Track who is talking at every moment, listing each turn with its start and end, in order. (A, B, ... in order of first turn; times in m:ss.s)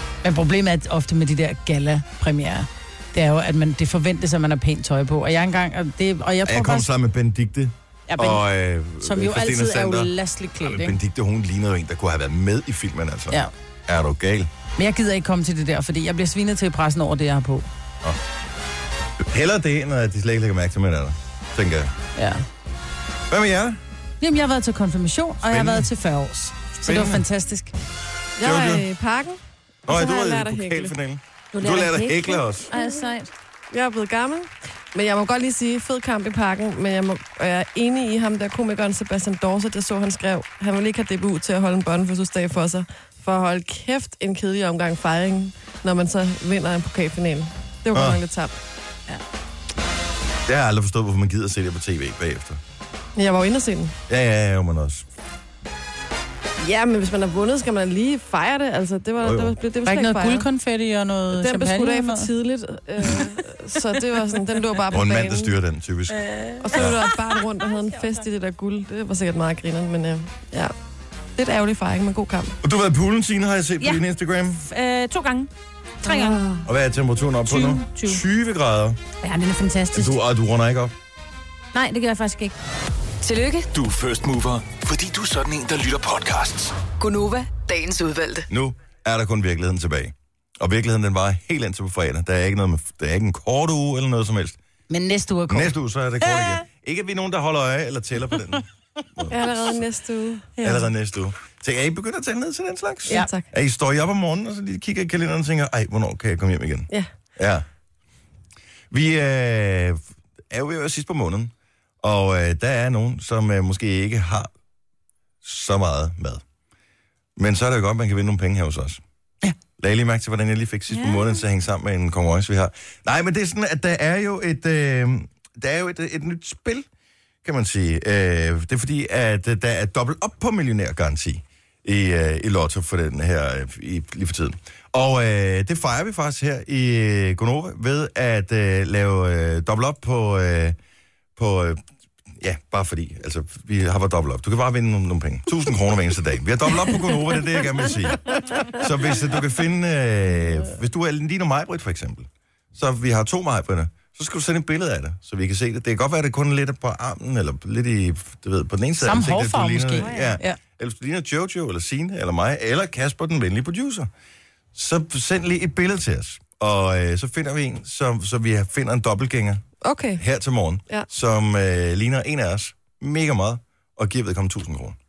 0:00.2-0:06.9 A
0:06.4-0:14.5 B
0:08.1-0:08.4 A
0:09.0-0:11.0 A
0:14.8-0:17.6 A
0:19.2-0:21.9 B
0:22.2-0:22.4 A
0:23.3-0:23.8 B
0:24.2-0:27.7 A
0:25.4-0:25.9 B
0:26.8-0:27.2 B
0:28.4-0:30.9 C
0:28.4-0:28.8 B
0:29.9-0:32.7 B
0:31.5-0:33.3 D
0:32.7-0:33.1 C
0:33.7-0:48.6 C
0:47.9-0:48.2 B
0:50.4-0:52.6 B
0:53.2-0:54.0 C
0:54.1-0:55.0 B
0:56.6-1:00.5 C
0:59.2-0:59.6 B
0:59.8-1:02.3 A
1:01.3-1:05.5 C
1:04.9-1:07.0 B
1:06.3-1:06.9 A
1:06.6-1:10.7 C
1:11.4-1:12.6 C
1:12.6-1:14.6 B
1:14.6-1:15.5 D
1:16.0-1:16.4 D
1:16.0-1:16.6 C
1:16.6-1:19.0 B
1:17.5-1:18.2 D
1:19.2-1:20.2 D
1:19.9-1:20.9 B
1:21.7-1:22.5 D
1:23.2-1:23.7 E
1:23.7-1:26.8 F
1:27.0-1:28.5 E
1:28.5-1:34.6 B
1:34.9-1:36.6 A
1:35.5-1:38.6 B
1:39.1-1:39.8 B
1:39.3-1:40.5 C
1:40.6-1:47.6 B
1:43.1-1:43.5 C
1:48.9-1:50.0 B
1:50.5-1:54.5 B
1:55.4-1:56.4 B
1:57.4-1:59.0 B
1:59.8-2:06.9 B
2:00.9-2:01.4 D
2:07.4-2:20.8 B
2:21.4-2:21.8 B
2:22.4-2:44.1 B
2:39.0-2:40.6 A
2:40.0-2:40.4 D
2:44.7-2:49.6 B
2:49.8-2:50.2 C
2:50.2-2:55.0 B